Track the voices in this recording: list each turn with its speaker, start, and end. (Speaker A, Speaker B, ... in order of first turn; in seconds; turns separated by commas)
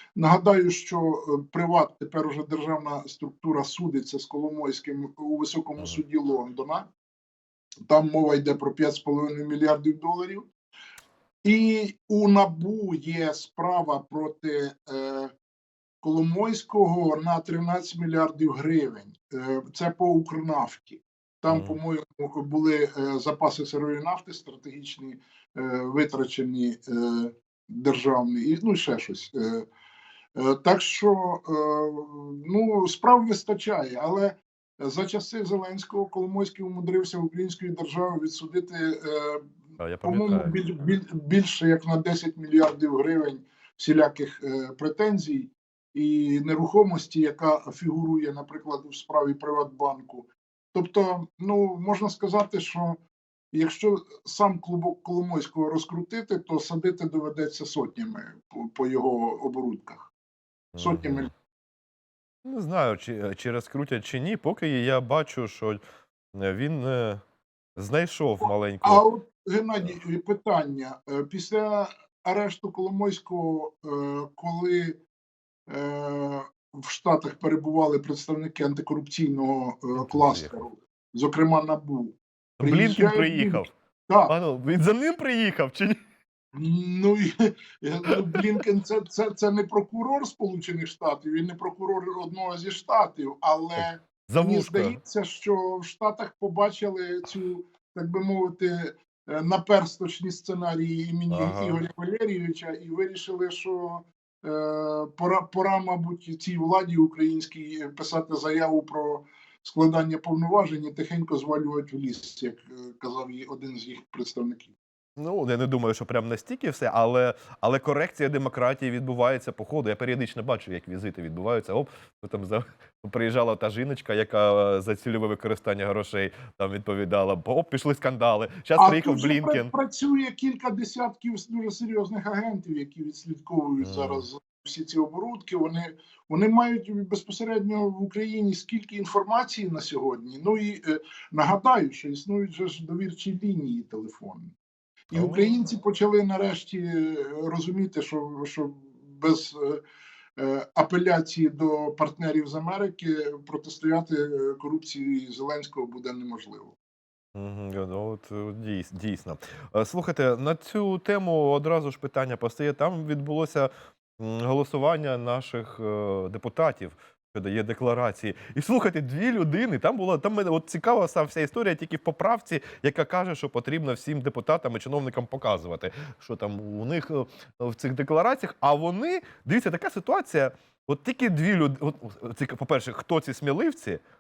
Speaker A: 0.2-6.9, Speaker A: 7.9-10.5, Speaker A: 11.4-15.3, Speaker A: 16.0-29.7, Speaker B: 21.5-21.8, Speaker A: 30.4-53.0, Speaker B: 39.8-40.6, Speaker A: 53.5-60.1, Speaker B: 60.7-61.3, Speaker A: 60.8-61.3, Speaker B: 62.4-65.8, Speaker B: 66.3-67.2, Speaker B: 67.8-69.0, Speaker A: 68.8-75.0, Speaker A: 75.7-84.3, Speaker B: 80.0-80.6, Speaker B: 82.6-83.7, Speaker B: 84.3-86.0, Speaker A: 86.5-114.7, Speaker B: 88.3-88.6, Speaker B: 93.8-95.0, Speaker B: 101.3-101.8, Speaker B: 115.2-129.7, Speaker A: 128.8-144.5, Speaker B: 133.8-134.3, Speaker A: 145.1-149.8, Speaker B: 145.1-145.5, Speaker A: 150.4-156.8, Speaker B: 157.3-184.0